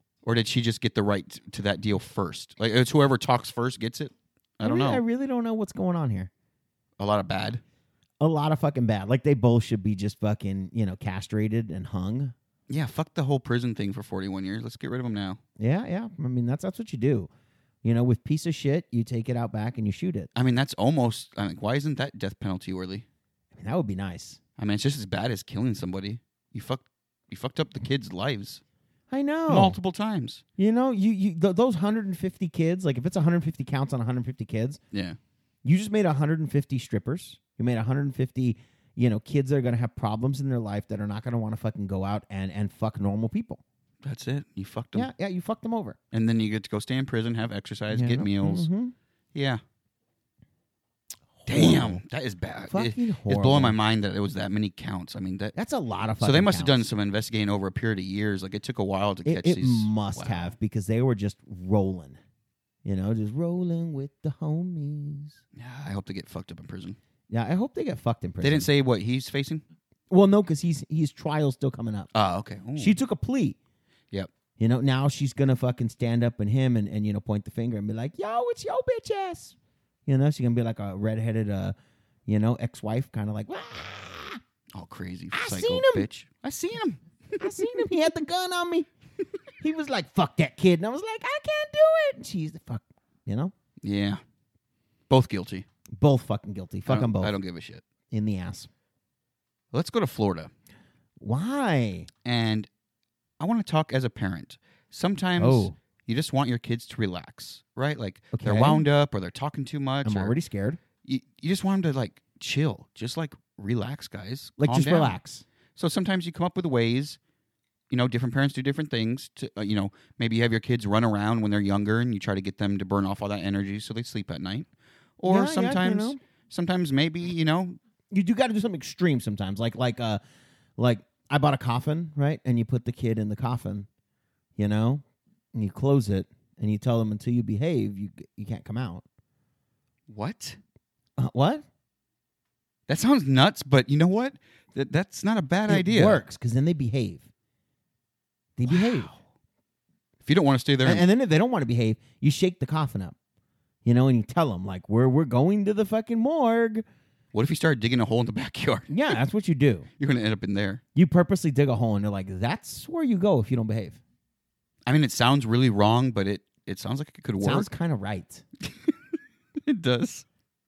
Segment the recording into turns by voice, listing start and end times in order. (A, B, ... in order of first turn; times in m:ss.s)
0:00.2-0:05.0 A
0:04.6-0:06.3 B
0:07.0-0:07.6 A
0:08.2-0:12.3 B
0:12.7-0:15.4 A
0:15.6-0:17.3 B
0:17.8-0:20.3 B
0:20.4-0:23.1 A
0:23.6-0:24.4 B
0:24.6-0:28.6 A
0:29.1-0:29.8 B
0:29.5-0:30.4 A
0:30.6-0:34.8 B
0:34.9-0:35.2 A
0:35.6-0:43.6 B
0:44.0-0:45.1 A
0:45.0-0:46.0 B
0:46.1-0:48.7 A
0:47.9-0:48.9 B
0:49.3-0:49.6 A
0:51.4-0:52.0 B
0:51.5-0:55.6 A
0:52.7-0:53.8 B
0:55.6-0:56.8 B
0:56.2-1:00.5 A
0:59.2-1:02.2 B
1:02.8-1:05.4 B
1:05.6-1:07.0 A
1:07.3-1:08.7 B
1:08.4-1:09.6 A
1:10.1-1:12.1 B
1:12.1-1:13.0 A
1:12.8-1:13.6 B
1:14.6-1:19.6 B
1:20.1-1:21.8 B
1:22.3-1:24.4 B
1:24.7-1:27.7 A
1:25.3-1:26.1 B
1:27.4-1:28.9 B
1:29.6-1:33.5 B
1:33.8-1:34.2 A
1:35.1-1:35.6 A
1:36.0-1:37.4 B
1:36.9-1:37.8 A
1:38.1-1:38.7 B
1:39.7-1:40.5 A
1:41.2-1:42.1 B
1:42.2-1:42.7 A
1:43.4-1:50.4 A
1:45.4-1:45.8 B
1:48.3-1:48.9 B
1:50.0-1:50.8 B
1:51.0-1:55.2 A
1:54.6-1:55.4 B
1:55.8-1:57.2 A
1:57.9-2:04.7 A
2:05.2-2:07.8 A
2:05.3-2:06.2 B
2:08.1-2:10.2 B
2:10.8-2:13.9 B
2:14.6-2:15.0 B
2:15.5-2:19.0 B
2:20.1-2:20.6 A
2:21.2-2:21.6 B
2:22.9-2:26.2 A
2:25.7-2:27.3 B
2:28.6-2:29.1 B
2:28.7-2:29.2 A
2:30.2-2:31.1 A
2:30.8-2:33.2 B
2:33.8-2:36.8 B
2:37.3-2:39.2 A
2:38.9-2:39.9 B
2:40.0-2:40.8 A
2:41.0-2:44.0 B
2:44.9-2:47.7 A
2:47.4-2:48.4 B
2:48.6-2:49.0 A
2:49.7-2:50.3 A